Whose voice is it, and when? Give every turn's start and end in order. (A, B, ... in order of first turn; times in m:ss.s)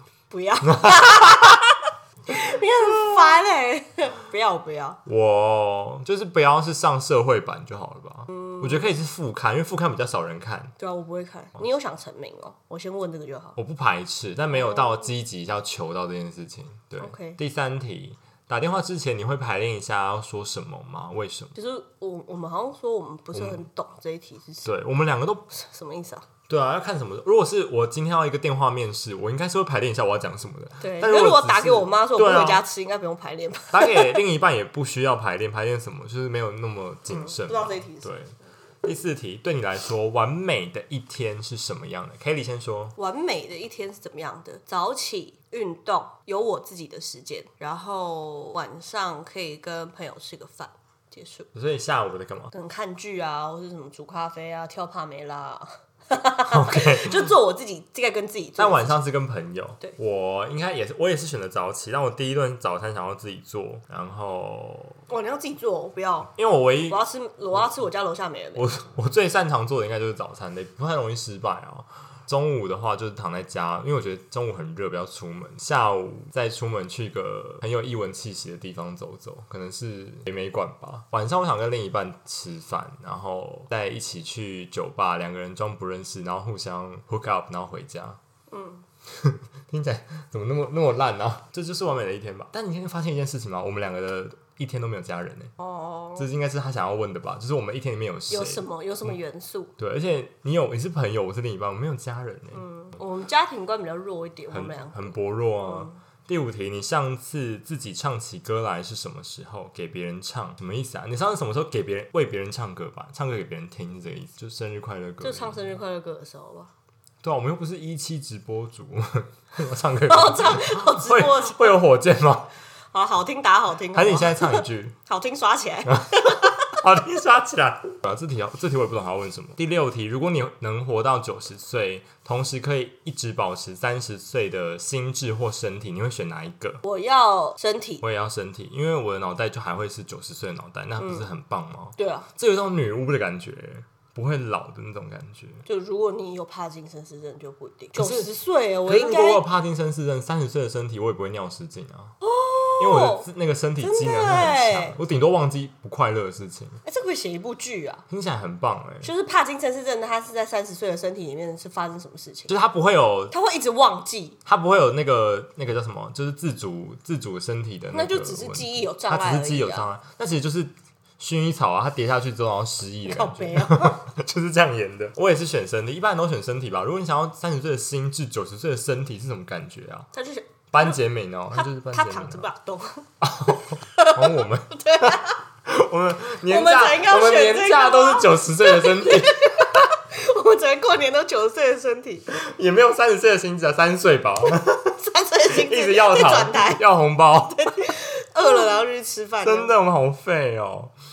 0:00.3-0:05.0 A
0:00.6-0:01.6 B
0:02.8-0:03.3 B
0:05.0-0:10.7 B
0:08.3-0:08.9 A
0:10.8-0:13.6 A
0:13.6-0:21.5 B
0:14.6-0:15.0 A
0:17.0-0:17.4 A
0:21.6-0:24.7 A
0:23.3-0:23.6 B
0:24.6-0:25.5 B
0:25.5-0:26.3 A
0:26.5-0:32.7 B
0:30.8-0:34.2 A
0:33.7-0:43.0 B
0:37.1-0:38.1 A
0:43.0-0:51.5 A
0:51.5-0:52.5 B
0:52.5-0:59.0 A
0:56.5-0:57.3 B
0:58.6-1:05.0 B
1:05.1-1:06.3 A
1:06.3-1:07.0 B
1:06.9-1:08.7 A
1:08.6-1:28.2 B
1:28.5-1:28.8 A
1:29.1-1:35.5 B
1:35.6-1:36.3 A
1:36.2-1:39.2 B
1:38.3-1:39.7 A
1:39.8-1:42.7 B
1:42.5-1:46.0 A
1:44.5-1:55.7 B
1:55.2-1:56.7 A
1:57.2-2:02.5 B
2:00.1-2:01.8 A
2:02.9-2:06.7 A
2:03.9-2:05.0 B
2:05.9-2:16.8 B
2:16.8-2:18.0 A
2:18.0-2:25.6 B
2:21.0-2:21.3 A
2:22.0-2:22.3 A
2:25.7-2:29.5 A
2:28.0-2:28.3 B
2:28.8-2:32.2 B
2:32.2-2:33.3 A
2:32.8-2:36.8 B
2:33.8-2:35.0 A
2:36.8-2:38.0 A
2:38.1-2:39.1 B
2:39.0-2:42.5 A
2:42.5-2:43.3 B
2:43.3-2:44.4 A
2:44.5-3:00.1 B
2:47.9-2:49.9 A
2:53.1-2:54.0 A
3:00.1-3:01.0 A
3:00.7-3:02.5 B
3:01.5-3:03.1 A
3:03.2-3:09.9 B
3:03.9-3:05.4 A
3:06.5-3:12.3 A
3:12.3-3:17.9 B
3:15.0-3:16.8 A
3:17.6-3:19.8 A
3:19.4-3:20.9 B